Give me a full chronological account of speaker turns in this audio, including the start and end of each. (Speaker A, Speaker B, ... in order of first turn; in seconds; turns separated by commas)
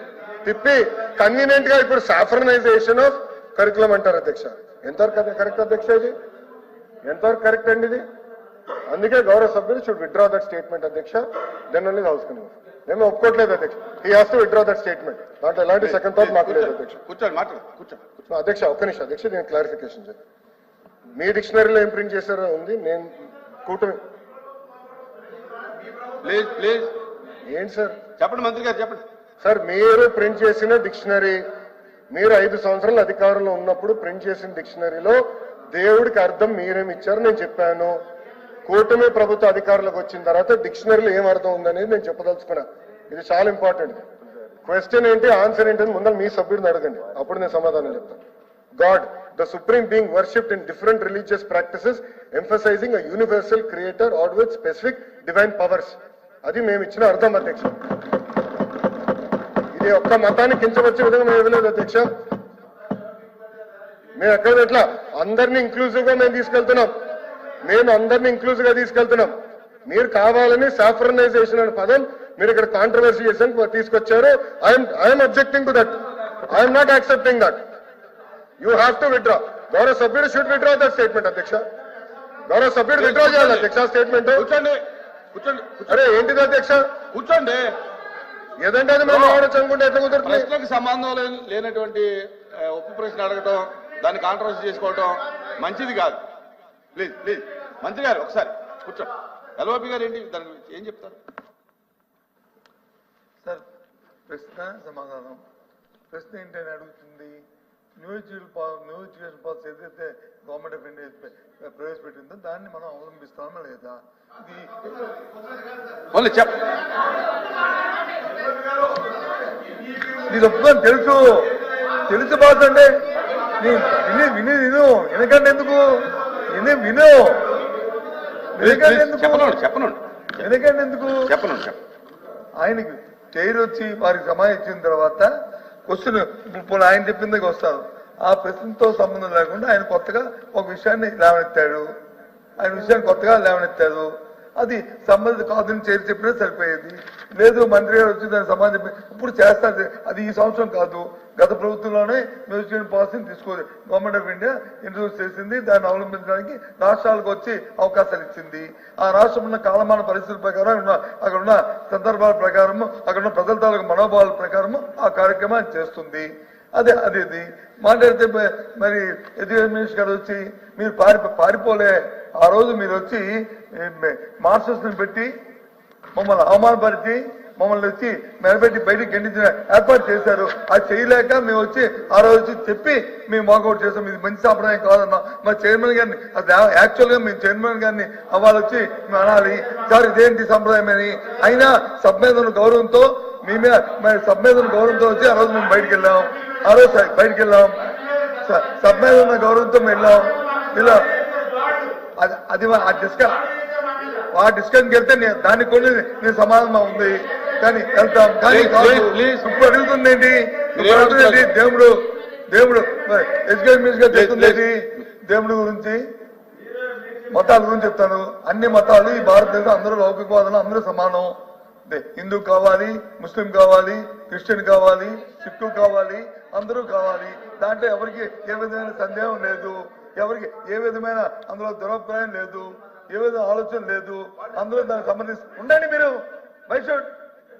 Speaker A: 0.4-6.1, Speaker A: 7.0-8.0, Speaker A: 8.9-17.0, Speaker B: 15.8-18.2, Speaker A: 18.3-20.2, Speaker A: 21.1-23.1, Speaker A: 23.6-24.0, Speaker B: 26.2-26.9, Speaker A: 27.5-28.0, Speaker B: 28.2-29.0, Speaker A: 29.4-31.4, Speaker A: 32.1-38.0, Speaker A: 38.7-44.0, Speaker A: 44.6-48.2, Speaker A: 48.8-57.8, Speaker A: 59.7-62.1, Speaker A: 64.2-66.9, Speaker A: 67.6-69.3, Speaker A: 69.8-77.6, Speaker A: 78.6-81.6, Speaker A: 82.5-84.4, Speaker B: 83.0-83.7, Speaker B: 84.3-84.8, Speaker B: 85.3-86.0, Speaker A: 85.9-86.8, Speaker B: 87.1-87.6, Speaker A: 88.6-90.5, Speaker B: 89.0-89.4, Speaker B: 90.2-92.0, Speaker B: 92.6-96.2, Speaker B: 96.9-101.2, Speaker C: 104.3-105.4, Speaker C: 106.1-107.4, Speaker C: 108.0-114.9, Speaker B: 116.1-116.6, Speaker C: 120.3-121.5, Speaker C: 122.1-122.9, Speaker C: 123.6-127.5, Speaker C: 128.6-129.6, Speaker B: 128.6-130.0, Speaker C: 130.4-131.1, Speaker B: 131.3-131.8, Speaker C: 132.6-135.3, Speaker C: 135.9-141.9, Speaker C: 142.6-175.3, Speaker C: 176.1-197.8, Speaker C: 198.4-201.0, Speaker C: 202.2-203.4, Speaker C: 204.3-216.0, Speaker B: 208.5-209.4, Speaker B: 210.8-211.5, Speaker B: 214.1-214.6, Speaker C: 217.3-221.3, Speaker C: 221.9-237.1